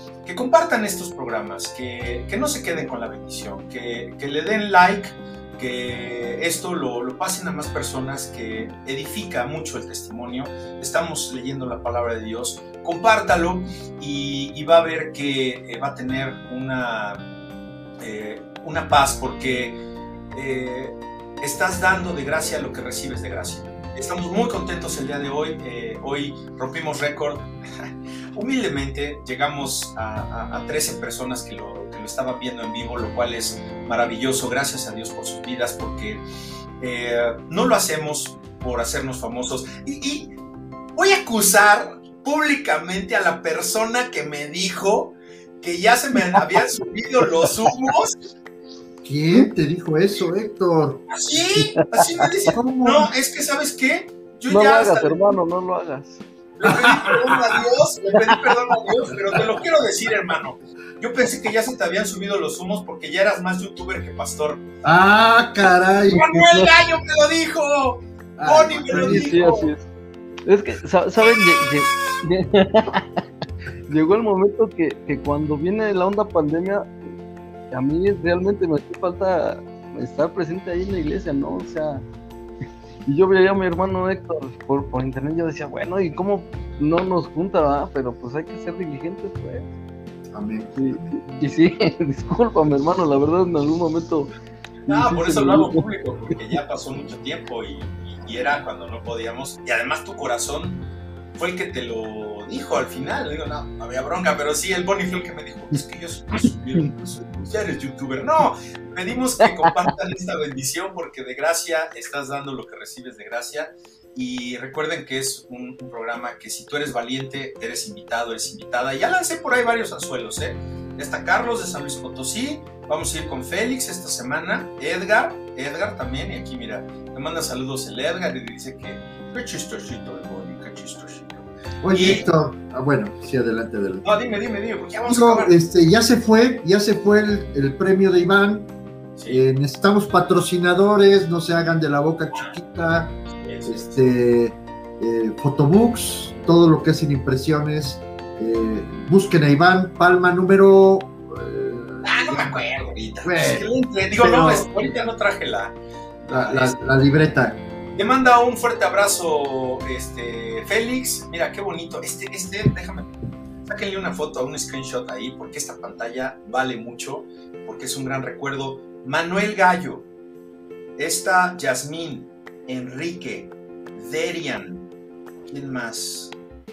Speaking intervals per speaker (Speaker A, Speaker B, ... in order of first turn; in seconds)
Speaker A: 0.2-17.2, 18.0-19.8, 20.3-36.2, 36.8-40.4, 41.0-48.1, 51.1-55.4, 56.6-64.6, 66.1-69.7, 94.9-132.3, 134.0-135.5, 139.2-139.4, 143.3-143.9, 152.0-156.8, 157.9-163.1, 163.7-170.1, 171.0-174.9, 175.5-176.3
Speaker B: 49.0-51.1, 52.5-53.1, 56.7-57.4, 64.8-66.4, 68.4-69.4, 90.3-91.0, 131.8-134.1, 135.1-138.7, 139.3-152.5, 153.2-154.9, 156.3-157.6
Speaker C: 51.8-52.3, 54.5-56.2, 58.1-58.5, 66.3-66.7, 68.9-69.8, 70.5-73.2, 73.9-76.9, 77.7-82.0, 83.1-89.7, 90.8-94.3, 94.9-95.8, 109.5-109.9